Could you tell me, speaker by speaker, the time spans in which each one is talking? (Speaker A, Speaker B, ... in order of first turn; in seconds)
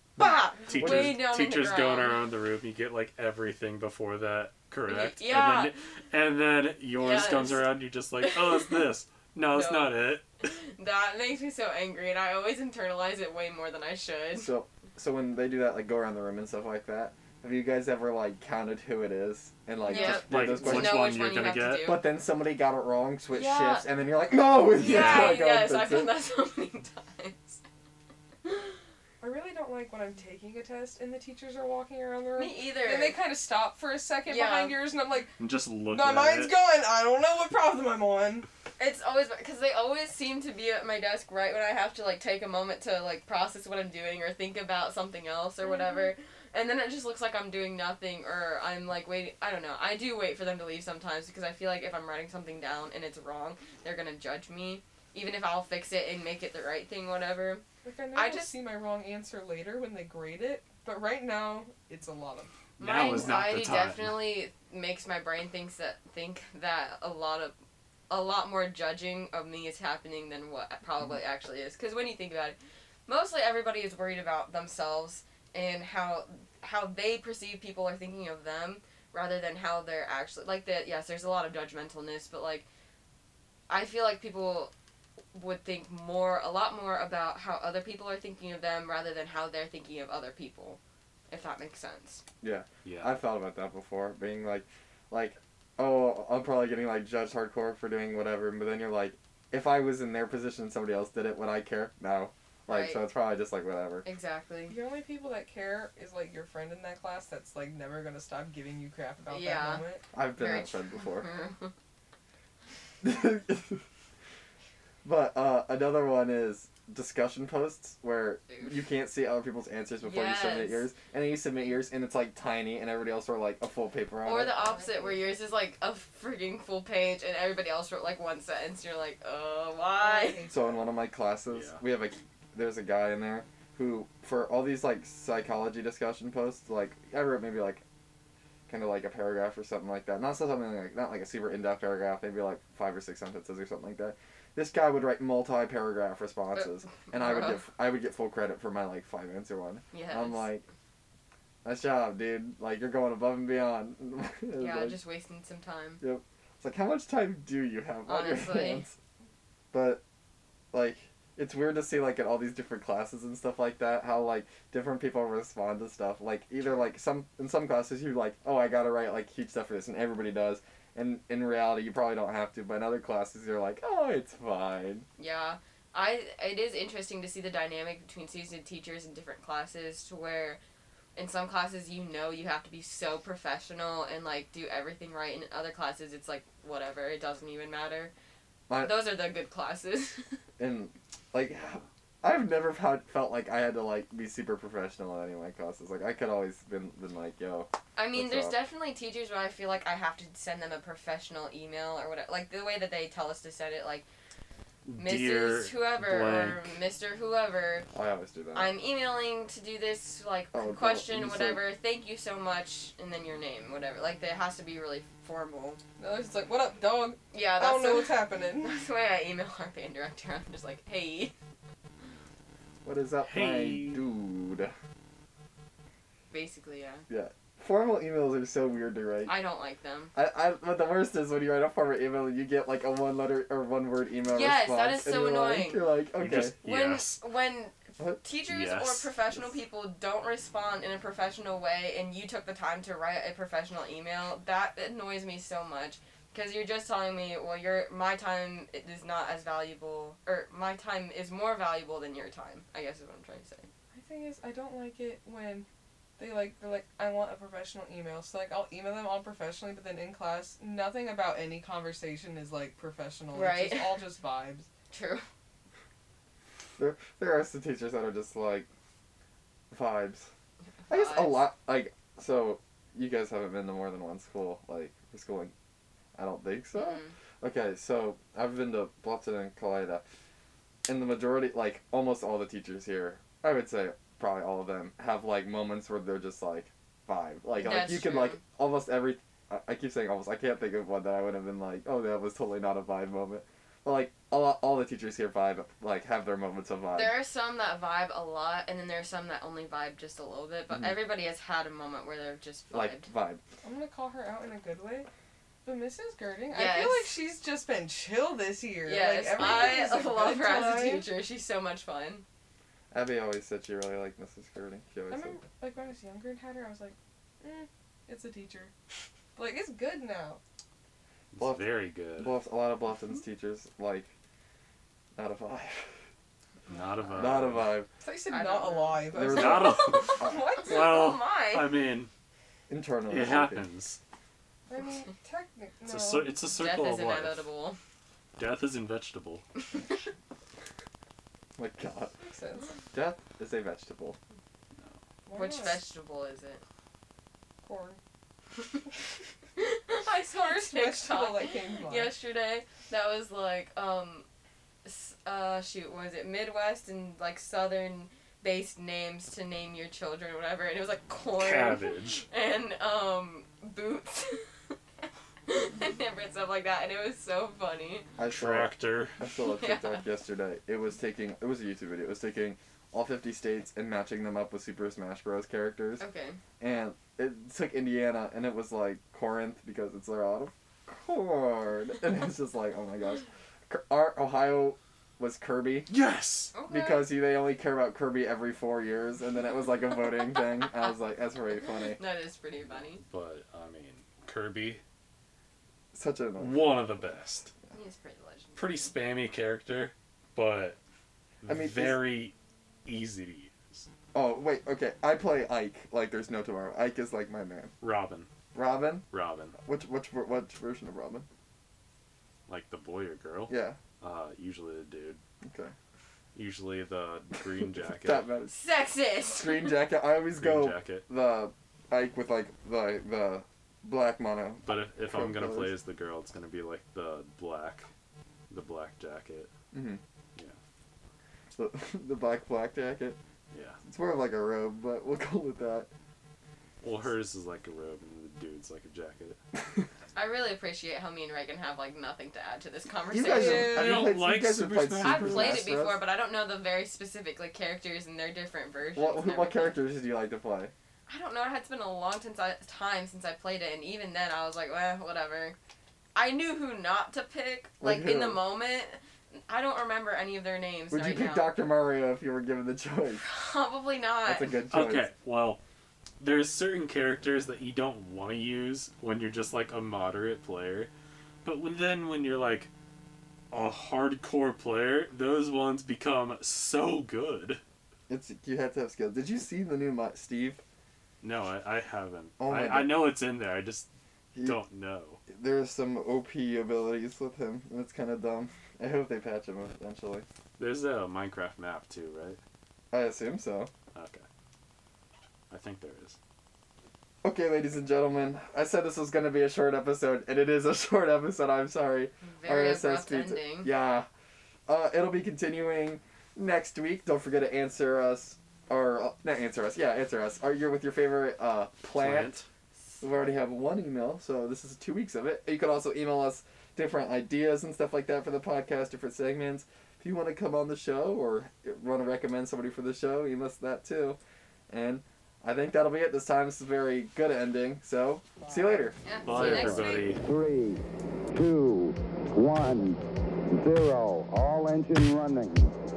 Speaker A: 0.2-2.2, 4.9-5.7, 7.0-8.8, 9.5-9.9, 10.4-14.5, 19.9-22.0, 23.3-23.9, 24.7-27.6, 28.4-28.7, 32.4-33.1, 34.3-34.8, 38.8-57.6, 58.1-58.5, 62.8-67.5, 68.1-82.7, 83.7-84.7, 85.3-92.2, 102.7-103.0, 104.0-104.8, 109.3-109.8, 110.3-111.7, 120.0-120.9, 124.2-130.4, 146.5-147.6, 149.9-150.5, 154.6-156.0, 158.1-158.8, 175.2-180.6, 181.2-188.1, 188.8-190.4, 197.9-204.0, 205.0-207.9, 208.5-215.8, 217.3-221.3, 226.3-227.1, 229.2-230.1, 234.3-235.9, 236.6-253.7, 263.3-264.0, 264.9-265.2, 270.8-271.5, 276.7-277.1, 287.6-288.4, 296.9-303.1, 306.5-307.1, 308.8-312.2, 328.3-331.7, 336.6-337.8, 345.3-346.6, 349.6-354.3, 354.8-364.5, 365.5-368.1, 369.4-370.0, 376.0-376.4, 386.5-387.1, 391.9-393.0, 397.7-398.8, 418.5-419.8, 440.1-444.1, 445.0-449.8, 451.1-455.6, 456.1-461.5, 463.2-464.6, 502.2-503.7, 529.0-530.1
Speaker B: 0.2-1.2, 14.3-21.2, 21.8-26.2, 92.4-104.0, 110.1-111.3, 113.0-113.8, 115.0-124.5, 130.5-137.8, 138.7-150.6, 151.6-155.0, 156.0-158.9, 159.7-160.0, 160.7-175.1, 188.7-189.0, 190.6-198.6, 207.9-208.7, 210.5-211.6, 222.8-224.7, 227.1-229.4, 230.1-236.6, 266.8-268.7, 269.7-270.3, 270.9-275.5, 276.1-280.0, 280.9-297.2, 300.7-301.0, 302.7-303.4, 312.9-315.4, 321.4-324.1, 325.1-325.9, 327.1-327.9, 329.1-330.4, 332.7-333.7, 341.6-342.2, 342.9-344.2, 368.2-376.0, 376.6-385.9, 386.6-392.0, 395.9-396.8, 401.5-402.0, 404.1-407.7, 408.5-409.1, 409.6-411.2, 413.5-413.8, 415.4-415.7, 418.0-418.6, 419.3-425.7, 429.7-430.0, 431.5-433.2, 433.8-435.9, 443.1-446.0, 448.9-450.7, 457.8-458.4, 460.9-463.2, 464.2-465.1, 478.1-480.6, 482.4-483.1, 485.3-490.2, 492.9-493.7, 497.2-504.1, 504.7-512.4, 513.0-524.2, 524.7-529.0
Speaker C: 0.7-10.2, 20.0-21.9, 35.4-36.6, 62.8-64.2, 92.8-93.2, 131.5-131.8, 204.8-206.8, 223.2-224.0, 236.2-237.2, 238.5-239.1, 309.4-309.7, 321.3-322.3, 326.7-327.8, 329.3-332.1, 333.1-334.0, 335.8-337.5, 338.4-339.5, 361.4-362.2, 368.3-369.2, 385.9-386.5, 393.0-394.8, 396.4-397.5, 398.5-400.8, 401.4-402.3, 402.9-403.9, 407.8-408.3, 409.1-409.6, 412.5-415.2, 416.3-418.3, 420.4-421.1, 424.6-427.9, 428.5-429.5, 433.5-433.8, 436.8-439.4, 443.4-445.6, 464.7-465.6, 466.2-470.9, 471.4-472.7, 473.5-477.6, 481.2-483.9, 484.4-485.2, 490.6-492.4, 493.9-494.2, 495.5-496.2, 511.9-512.5, 529.2-530.2
Speaker D: 29.2-38.5, 45.6-46.1, 57.8-62.5, 104.7-110.0, 124.7-125.3, 130.0-130.8, 216.0-218.8, 253.9-255.7, 256.2-264.7, 303.6-305.1, 305.6-311.1, 315.1-318.7, 319.4-320.4, 328.0-330.9, 334.7-336.5, 342.2-342.7, 345.2-345.8, 347.6-348.0, 350.1-352.1
Speaker E: 528.4-528.8, 530.1-535.7